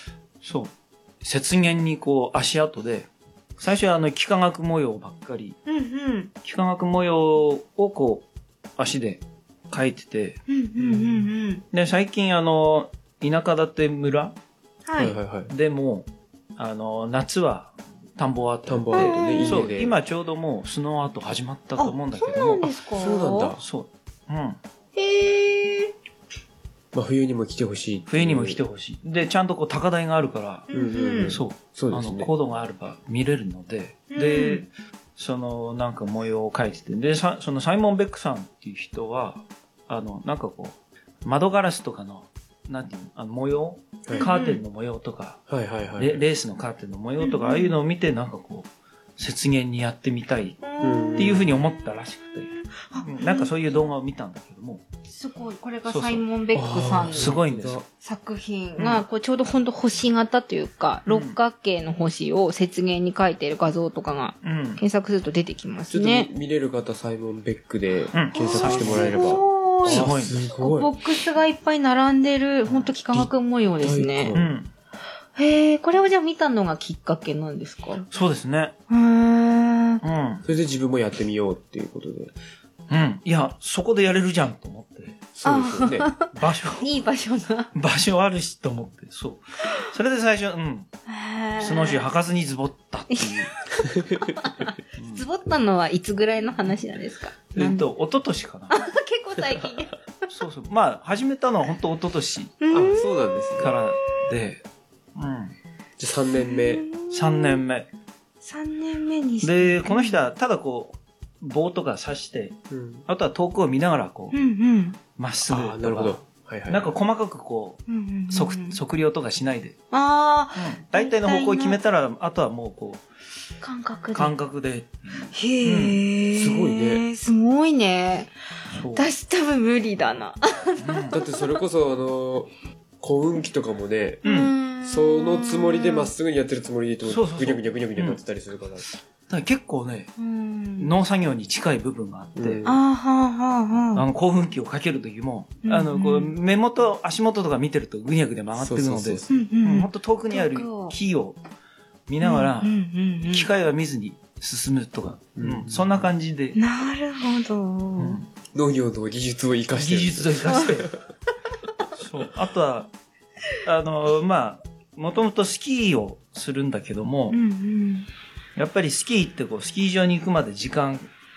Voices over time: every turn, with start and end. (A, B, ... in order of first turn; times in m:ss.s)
0:00.4-0:05.6 A
0:05.7-0:06.3 B
0:06.4-0:08.3 A
0:08.8-0:10.4 A
0:10.5-0:11.6 B
0:10.8-0:11.3 C
0:11.7-0:14.4 A
0:14.9-0:15.2 B
0:15.0-0:15.5 C
0:15.5-0:22.7 A
0:18.7-0:20.0 C
0:18.9-0:19.6 B
0:21.8-0:23.6 B
0:22.8-0:23.6 C
0:23.6-0:24.6 A
0:25.0-0:25.9 B
0:26.9-0:28.6 C
0:28.1-0:30.7 A
0:30.7-0:31.4 B
0:30.7-0:32.3 C
0:31.2-0:45.4 A
0:34.1-0:34.7 B
0:44.0-0:44.3 C
0:44.1-0:44.6 B
0:45.5-0:46.2 C
0:46.0-0:50.6 A
0:47.2-0:47.8 B
0:50.6-0:51.5 B
0:50.8-0:51.5 C
0:51.2-0:52.5 A
0:52.7-0:53.8 B
0:53.0-0:54.8 A
0:55.1-0:57.4 B
0:55.9-0:56.2 A
0:56.5-0:57.8 C
0:57.1-0:57.8 A
0:58.0-1:06.3 B
0:58.8-0:59.0 A
1:01.1-1:01.4 A
1:04.4-1:04.8 A
1:05.9-1:10.9 C
1:08.1-1:10.4 A
1:08.3-1:14.4 B
1:13.8-1:14.5 C
1:14.3-1:14.7 A
1:15.4-1:18.0 B
1:18.1-1:18.8 A
1:18.9-1:20.0 B
1:20.0-1:20.4 A
1:20.4-1:22.3 C
1:22.9-1:25.2 A
1:25.3-1:26.1 C
1:25.4-1:27.7 B
1:26.3-1:26.9 A
1:27.8-1:30.9 A
1:31.1-1:32.0 B
1:31.6-1:33.5 A
1:33.1-1:37.8 B
1:33.9-1:34.3 C
1:35.0-1:35.2 A
1:37.6-1:38.8 A
1:38.7-1:40.0 B
1:40.3-1:42.6 A
1:42.6-1:43.8 B
1:42.7-1:43.7 C
1:43.6-1:44.6 A
1:45.2-1:45.6 A
1:46.0-1:46.9 C
1:46.3-1:47.6 B
1:47.1-1:47.9 A
1:48.4-1:50.2 B
1:49.4-1:54.4 A
1:52.7-1:53.1 C
1:54.3-1:55.0 B
1:55.2-1:59.8 A
1:55.4-1:57.0 C
1:57.9-1:58.8 B
1:59.9-2:01.8 B
2:00.6-2:03.0 A
2:03.6-2:04.3 B
2:04.1-2:06.0 A
2:05.3-2:08.3 B
2:06.3-2:07.0 C
2:08.7-2:09.1 A
2:08.9-2:11.6 B
2:10.8-2:11.2 A
2:11.1-2:14.2 C
2:14.2-2:14.5 A
2:14.2-2:16.1 B
2:14.8-2:18.8 C
2:17.0-2:18.2 A
2:19.3-2:20.1 A
2:20.2-2:20.9 B
2:20.8-2:22.6 A
2:22.4-2:22.8 C
2:22.6-2:24.0 B
2:24.0-2:31.4 A
2:25.6-2:26.4 B
2:28.6-2:29.4 C
2:29.3-2:31.0 B
2:32.1-2:32.7 A
2:32.2-2:33.5 B
2:33.3-2:36.6 A
2:35.4-2:36.1 C
2:36.6-2:38.2 B
2:38.0-2:38.3 A
2:38.5-2:40.9 C
2:39.8-2:40.9 A
2:42.0-2:42.9 A
2:43.6-2:47.4 A
2:47.3-2:48.1 B
2:48.6-2:51.1 A